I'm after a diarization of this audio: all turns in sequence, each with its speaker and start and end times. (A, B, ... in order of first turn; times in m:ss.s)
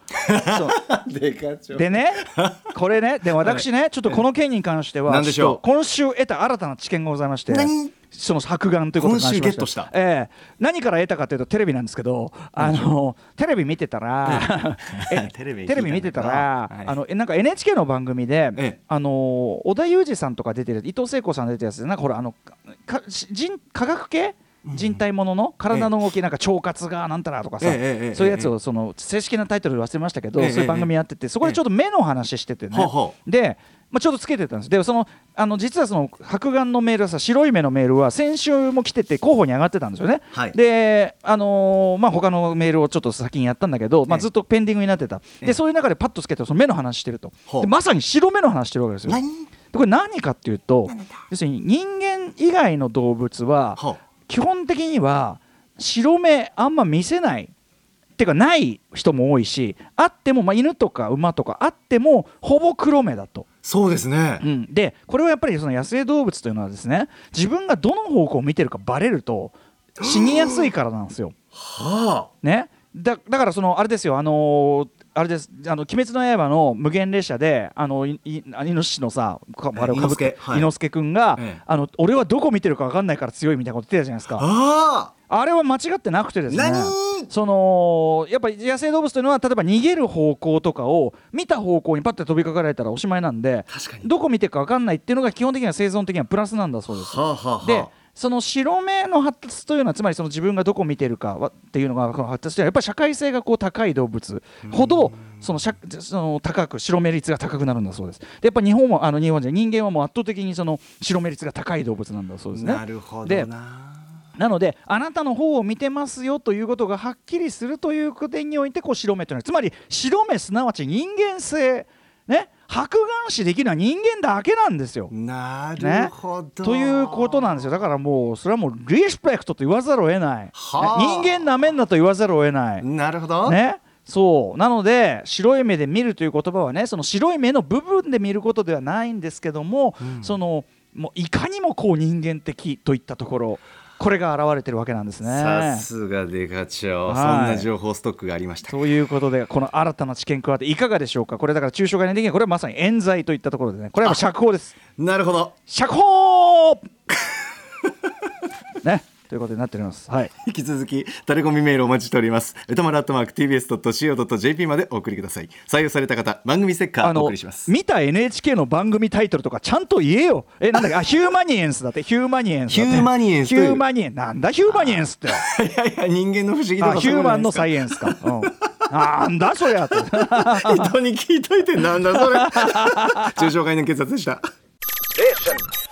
0:00.2-0:02.6 A
0:00.5-0:00.8 B
0:01.7-0:57.5 B
0:03.4-0:04.2 A
0:05.1-0:05.6 A
0:07.5-0:08.0 A
0:09.0-0:09.9 A
0:12.6-0:12.9 A
0:14.2-0:17.0 A
0:24.6-0:25.0 A
0:27.6-0:28.5 A
0:30.4-0:30.9 A
0:32.7-0:33.2 A
0:49.1-0:49.5 A
0:50.9-0:51.2 A
0:58.2-1:03.5 B
1:03.6-1:04.4 A
1:04.4-1:11.4 B
1:10.0-1:10.7 A
1:11.5-1:12.3 A
1:12.4-1:24.5 B
1:19.8-1:20.7 A
1:24.4-1:25.1 A
1:25.3-1:53.5 B
1:26.5-1:27.3 A
1:33.7-1:34.1 A
1:36.9-1:37.9 A
1:44.6-1:45.5 A
1:52.5-1:54.2 A
1:54.4-2:05.1 B
2:05.1-2:07.7 A
2:05.8-2:12.9 B
2:10.6-2:11.4 A
2:12.8-2:13.6 A
2:13.4-2:25.9 B
2:20.0-2:20.4 A
2:25.2-2:28.9 A
2:27.1-2:27.7 B
2:28.7-2:34.8 B
2:35.0-2:35.6 A
2:35.7-2:36.9 B
2:38.8-2:40.3 B
2:40.4-2:47.7 A
2:47.0-2:55.4 B
2:52.7-2:53.8 A
2:54.7-2:58.5 A
2:56.8-3:00.9 B
3:00.1-3:04.4 A
3:02.1-3:03.4 B
3:05.2-3:05.6 B